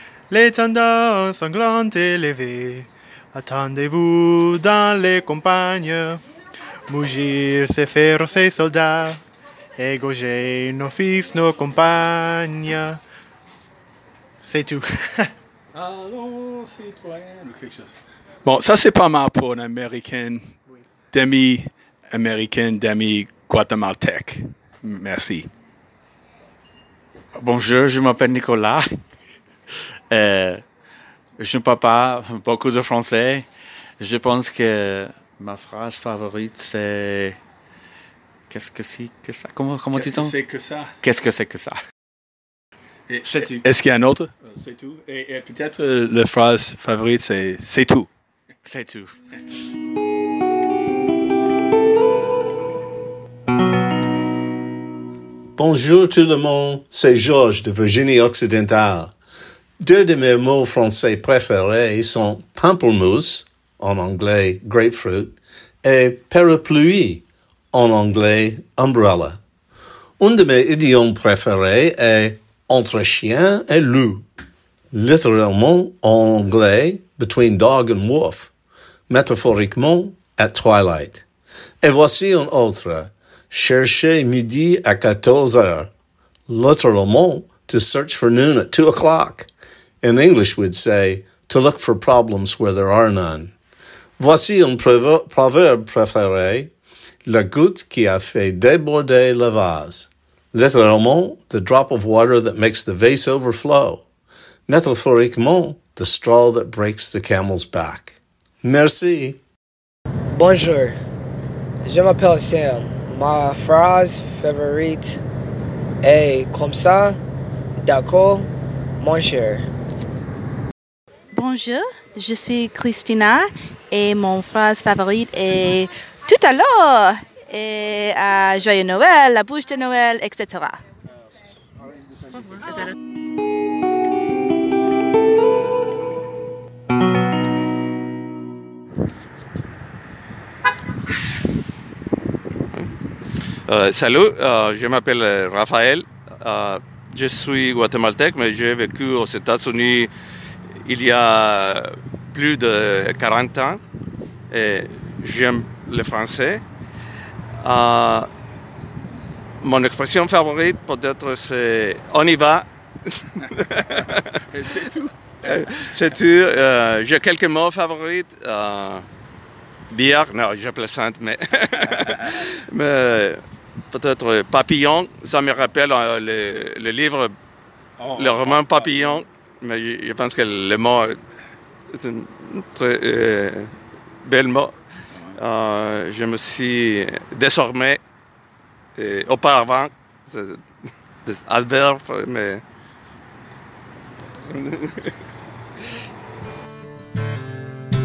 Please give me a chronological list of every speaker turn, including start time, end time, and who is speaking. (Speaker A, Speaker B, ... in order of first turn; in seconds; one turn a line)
Speaker A: 0.3-6.2
Speaker A: 6.9-9.2
Speaker A: 9.8-13.0
Speaker A: 14.4-15.3
Speaker B: 15.7-17.9
Speaker B: 18.4-20.6
Speaker B: 21.1-25.5
Speaker C: 27.4-28.9
Speaker C: 30.1-30.6
Speaker C: 31.4-33.5
Speaker C: 34.0-37.4
Speaker C: 38.5-40.3
Speaker B: 39.9-40.9
Speaker C: 41.0-41.8
Speaker B: 43.1-48.1
Speaker C: 43.2-43.6
Speaker C: 48.6-49.1
Speaker D: 55.6-59.1
Speaker D: 59.8-69.4
Speaker D: 70.2-74.2
Speaker D: 74.9-78.5
Speaker D: 79.1-81.2
Speaker D: 81.8-85.9
Speaker D: 86.5-89.5
Speaker D: 90.0-93.5
Speaker D: 94.2-96.7
Speaker D: 97.2-104.0
Speaker D: 104.7-109.4
Speaker E: 110.3-111.0
Speaker E: 111.8-115.2
Speaker E: 116.0-117.2
Speaker E: 117.8-119.7
Speaker F: 121.3-130.8
Speaker G: 143.7-150.1
Speaker G: 150.8-153.8
Speaker G: 154.5-156.6
Speaker G: 157.6-158.3
Speaker G: 159.6-162.7
Speaker G: 163.3-164.4
Speaker G: 165.4-169.1
Speaker G: 169.9-177.3
Speaker B: 178.0-179.2
Speaker G: 178.2-181.2
Speaker G: 181.9-183.7
Speaker G: 184.2-184.8
Speaker B: 185.1-185.4
Speaker G: 185.4-188.0
Speaker G: 188.9-190.6
Speaker G: 191.2-192.6
Speaker G: 194.5-195.1